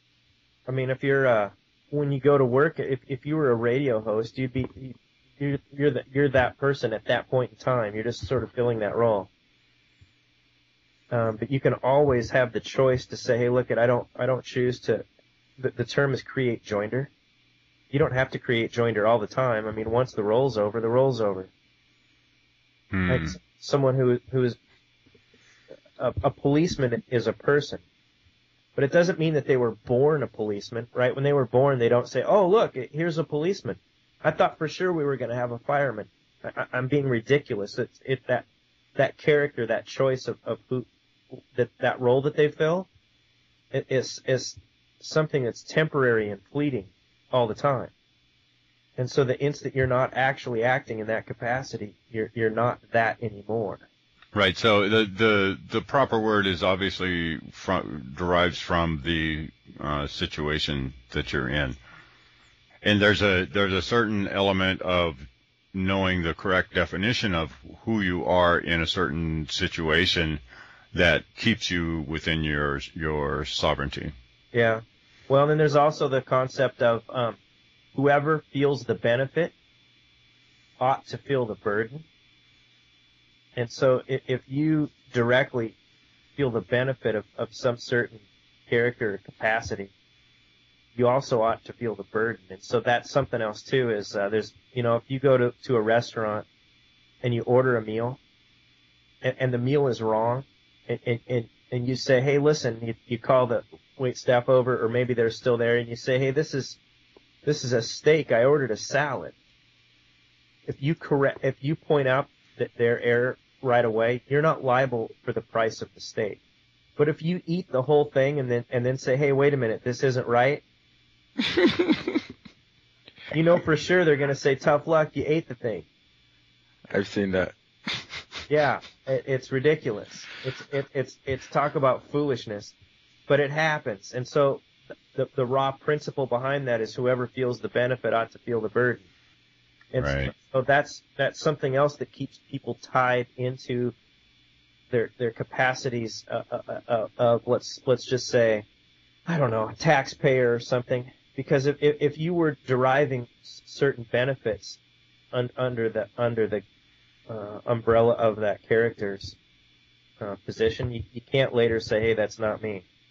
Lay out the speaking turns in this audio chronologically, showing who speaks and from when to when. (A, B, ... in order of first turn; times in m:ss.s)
0:00.7-0:09.3 A
0:11.1-0:15.0 A
0:15.6-0:17.1 A
0:17.9-0:21.5 A
0:22.9-0:23.3 B
0:23.1-0:24.6 A
0:26.0-0:27.8 A
0:28.8-0:40.9 A
0:41.5-0:42.9 A
0:43.7-0:47.9 A
0:49.0-0:53.9 A
0:54.3-1:01.8 B
1:02.8-1:10.4 B
1:10.9-1:14.1 B
1:14.5-1:17.4 A
1:17.9-1:19.5 A
1:20.8-1:22.0 A
1:23.6-1:25.8 A
1:26.4-1:29.9 A
1:30.9-1:36.4 A
1:37.2-1:38.2 A
1:39.2-1:46.8 A
1:47.4-1:49.3 A
1:50.6-1:56.4 A
1:57.0-2:00.6 A
2:01.4-2:02.2 C
2:03.3-2:05.9 A
2:06.9-2:08.2 C
2:08.5-2:12.7 A
2:13.3-2:14.6 A
2:15.1-2:19.1 A
2:19.9-2:23.9 A
2:20.0-2:20.3 B
2:24.9-2:28.6 A
2:29.3-2:34.8 A
2:35.3-2:36.6 A
2:37.3-2:39.4 A
2:40.2-2:42.8 A